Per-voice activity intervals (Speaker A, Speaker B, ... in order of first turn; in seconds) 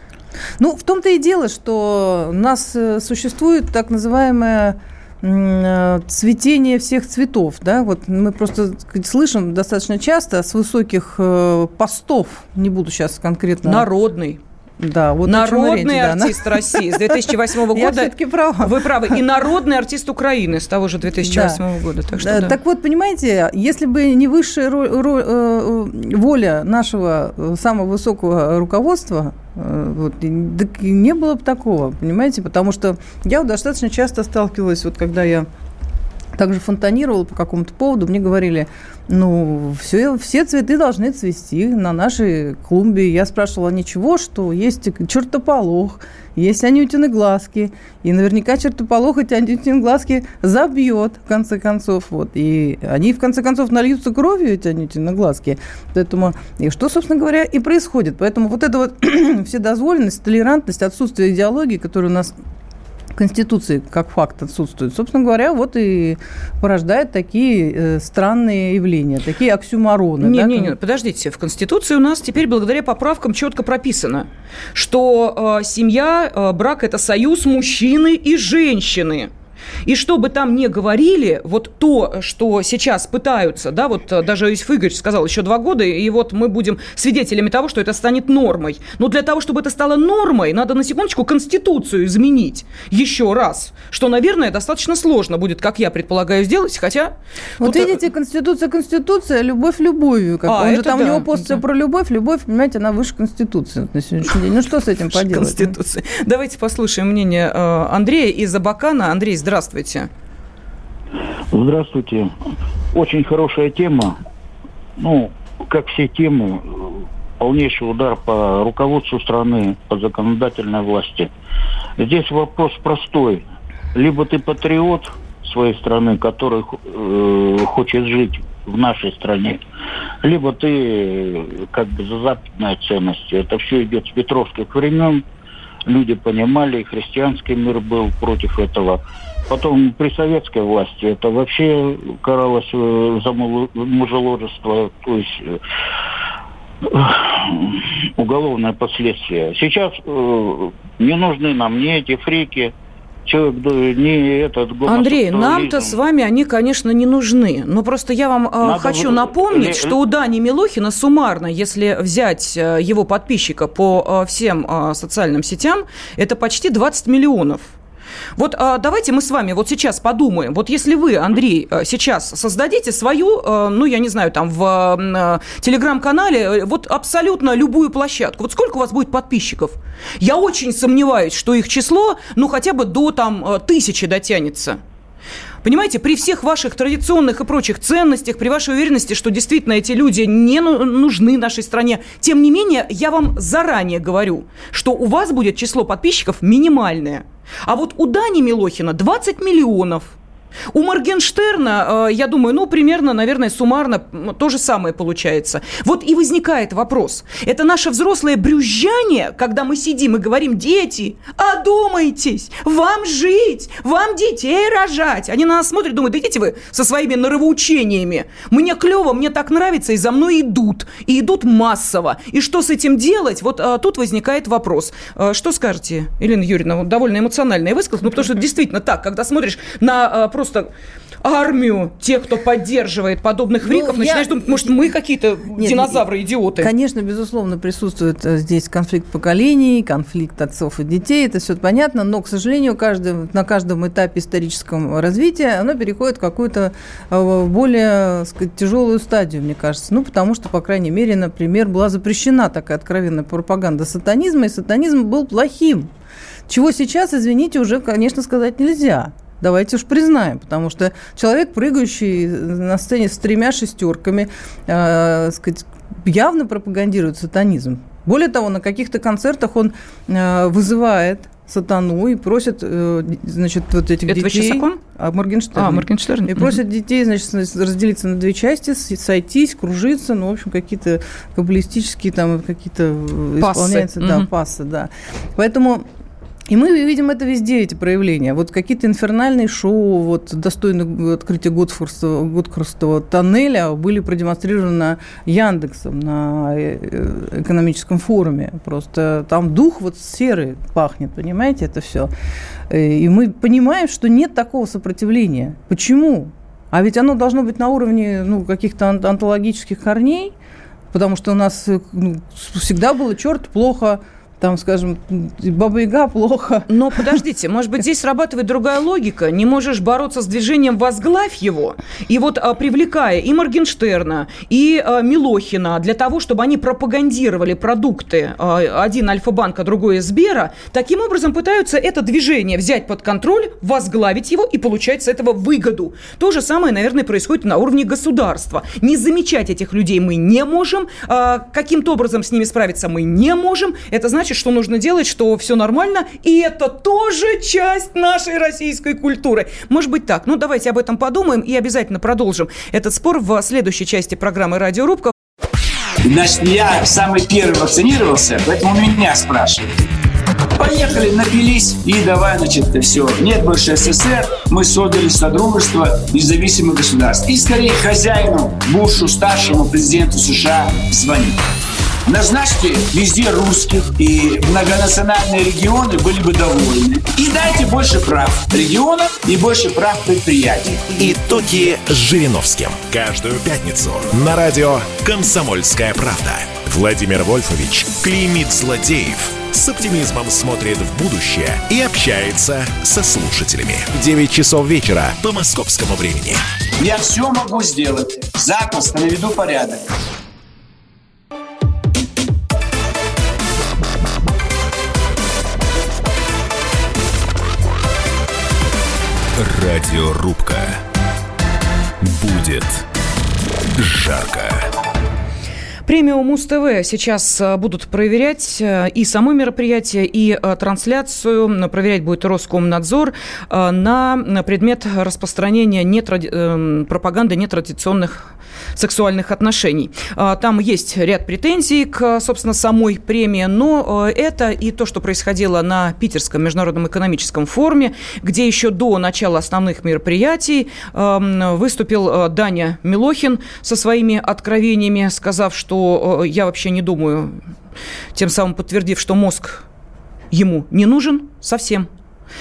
Speaker A: 0.6-13.8, 14.8-19.2, 21.2-21.6, 22.2-35.5, 36.4-62.3, 63.1-70.7, 97.6-105.7, 233.6-234.7, 235.6-236.0, 236.6-255.9, 256.5-285.9, 286.5-302.1, 302.7-310.3, 310.9-317.2
Speaker B: 13.6-14.4, 15.2-22.5, 70.2-79.3, 79.8-97.9, 100.4-101.6, 105.1-110.1, 154.8-167.7, 168.4-184.8, 185.6-200.1, 200.7-230.7, 231.2-236.7, 274.1-274.8, 275.6-276.6, 283.4-284.3, 316.7-355.1, 415.9-447.3, 448.1-449.6, 450.3-451.9
Speaker C: 111.5-112.3, 112.9-114.2, 115.0-121.3, 122.0-129.6, 130.2-135.2, 135.9-145.6, 146.9-152.7, 153.2-156.0, 158.6-160.0
Speaker D: 356.0-359.7, 360.6-371.4, 372.1-380.9, 396.8-399.8
Speaker E: 380.9-396.4
Speaker F: 409.4-410.8, 412.0-412.9, 413.7-414.7